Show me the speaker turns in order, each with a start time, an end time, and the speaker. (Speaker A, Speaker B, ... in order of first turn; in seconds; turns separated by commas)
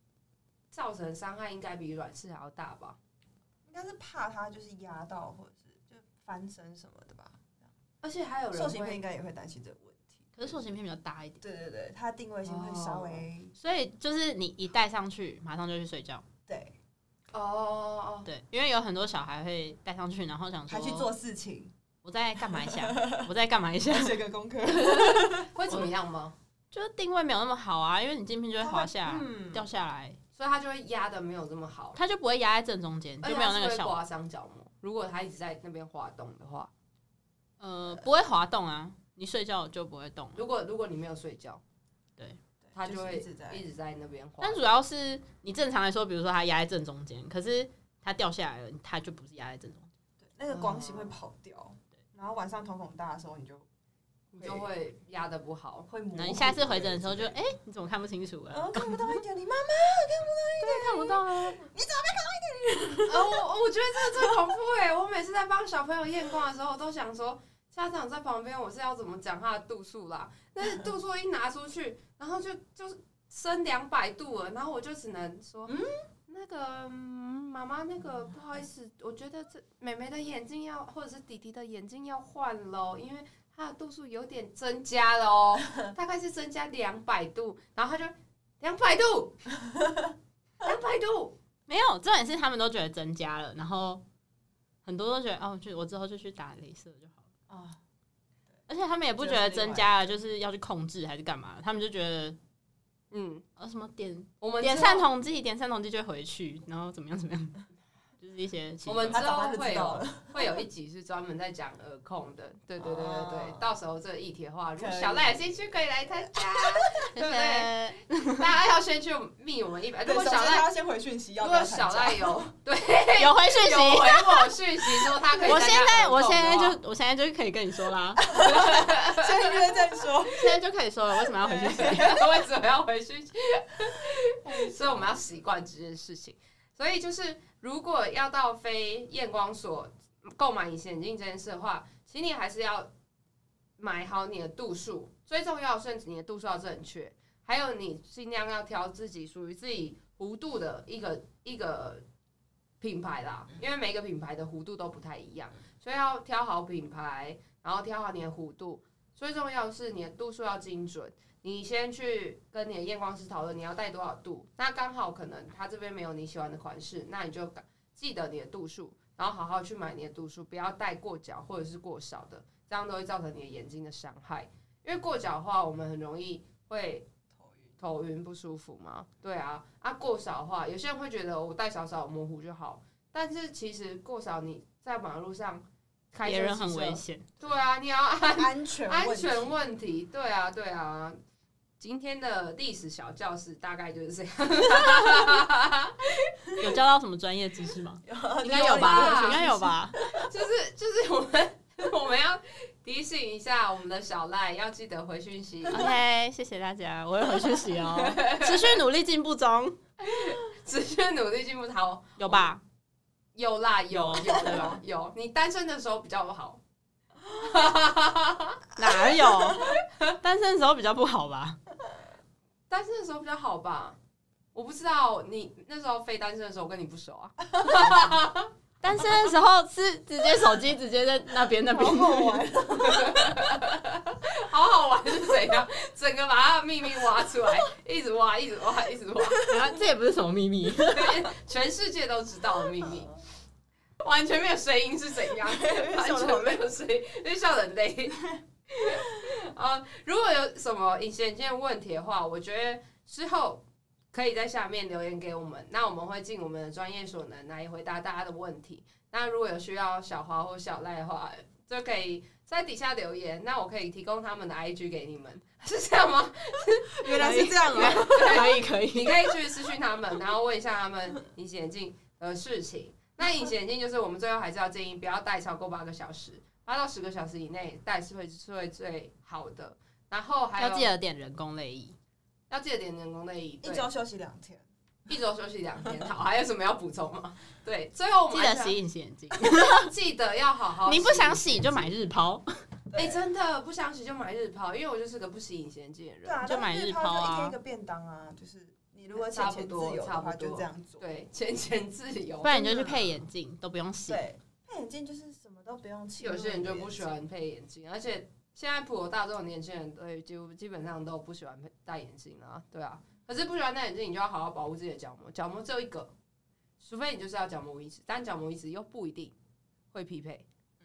Speaker A: 0.7-3.0, Speaker B: 3.6-7.7, Speaker A: 8.0-9.0, Speaker B: 8.5-10.6, Speaker C: 10.4-11.4, Speaker B: 11.4-13.6, Speaker A: 12.4-13.2, Speaker C: 13.6-16.2, Speaker B: 16.5-16.8, Speaker A: 17.3-18.3, Speaker C: 18.3-21.1, Speaker B: 20.7-21.7, Speaker C: 22.0-24.2, Speaker B: 22.4-23.3, Speaker B: 23.9-25.7, Speaker A: 24.7-26.4, Speaker C: 24.9-25.9, Speaker C: 26.7-30.2, Speaker B: 28.6-29.6, Speaker A: 30.4-32.0, Speaker C: 31.9-34.0, Speaker A: 33.2-36.7, Speaker C: 37.6-40.4, Speaker A: 40.4-41.6, Speaker B: 42.6-43.6, Speaker A: 42.8-44.6, Speaker C: 44.4-49.9, Speaker B: 50.2-53.7, Speaker A: 50.5-51.1, Speaker A: 54.3-55.9, Speaker B: 54.4-54.7, Speaker B: 55.9-57.4, Speaker C: 56.1-59.2, Speaker B: 58.5-63.4, Speaker C: 60.6-61.6, Speaker A: 63.1-89.4, Speaker B: 64.0-64.4, Speaker B: 75.7-76.0, Speaker A: 90.6-91.4, Speaker C: 91.7-94.0, Speaker C: 94.8-97.2, Speaker B: 97.5-97.8, Speaker C: 98.7-102.4, Speaker B: 99.2-100.0, Speaker A: 103.1-103.4, Speaker C: 103.6-107.6, Speaker A: 104.4-105.1, Speaker C: 108.2-109.2, Speaker A: 108.9-117.7, Speaker B: 109.1-110.6, Speaker B: 112.8-113.7, Speaker B: 114.8-116.8, Speaker C: 117.1-118.5, Speaker A: 118.3-120.7, Speaker B: 120.0-122.5, Speaker A: 121.4-126.8, Speaker C: 123.2-128.3, Speaker B: 125.3-125.7, Speaker B: 128.2-130.6, Speaker A: 128.4-129.6, Speaker C: 130.3-132.2, Speaker B: 131.2-132.3, Speaker A: 131.7-142.9, Speaker B: 134.4-135.2, Speaker A: 143.8-152.0, Speaker A: 152.8-177.1, Speaker B: 177.3-177.8, Speaker A: 177.8-191.2, Speaker C: 186.2-187.3, Speaker B: 188.4-189.6, Speaker A: 191.8-196.3, Speaker C: 196.6-200.0, Speaker B: 198.1-200.3, Speaker A: 198.4-199.5, Speaker A: 200.1-205.9, Speaker C: 205.7-209.8, Speaker A: 207.9-208.8, Speaker A: 210.0-212.5, Speaker C: 212.2-212.6, Speaker A: 213.3-216.6, Speaker C: 213.9-214.8, Speaker B: 214.3-214.8, Speaker A: 217.3-218.6, Speaker C: 218.8-221.6, Speaker B: 218.8-219.8, Speaker A: 219.5-220.1, Speaker A: 222.7-224.0, Speaker A: 224.5-228.5, Speaker B: 227.6-228.1, Speaker C: 228.8-232.4, Speaker B: 231.7-233.4, Speaker A: 232.8-239.5, Speaker B: 239.4-239.7, Speaker C: 239.4-241.3, Speaker A: 240.8-243.1, Speaker A: 244.0-280.9, Speaker B: 245.3-246.6, Speaker B: 267.0-268.6, Speaker C: 267.1-269.3, Speaker C: 280.6-281.9, Speaker A: 282.5-283.9, Speaker B: 283.6-284.7, Speaker A: 285.1-288.8, Speaker B: 285.8-286.1, Speaker C: 288.3-289.9, Speaker A: 289.5-291.9, Speaker C: 290.9-292.4, Speaker B: 292.9-293.2, Speaker A: 292.9-296.4, Speaker B: 296.2-301.0, Speaker C: 296.4-297.6, Speaker A: 299.1-302.9, Speaker C: 302.4-304.2, Speaker B: 302.6-303.0, Speaker B: 304.1-307.1, Speaker A: 306.2-316.1, Speaker A: 316.8-319.4, Speaker A: 319.9-320.5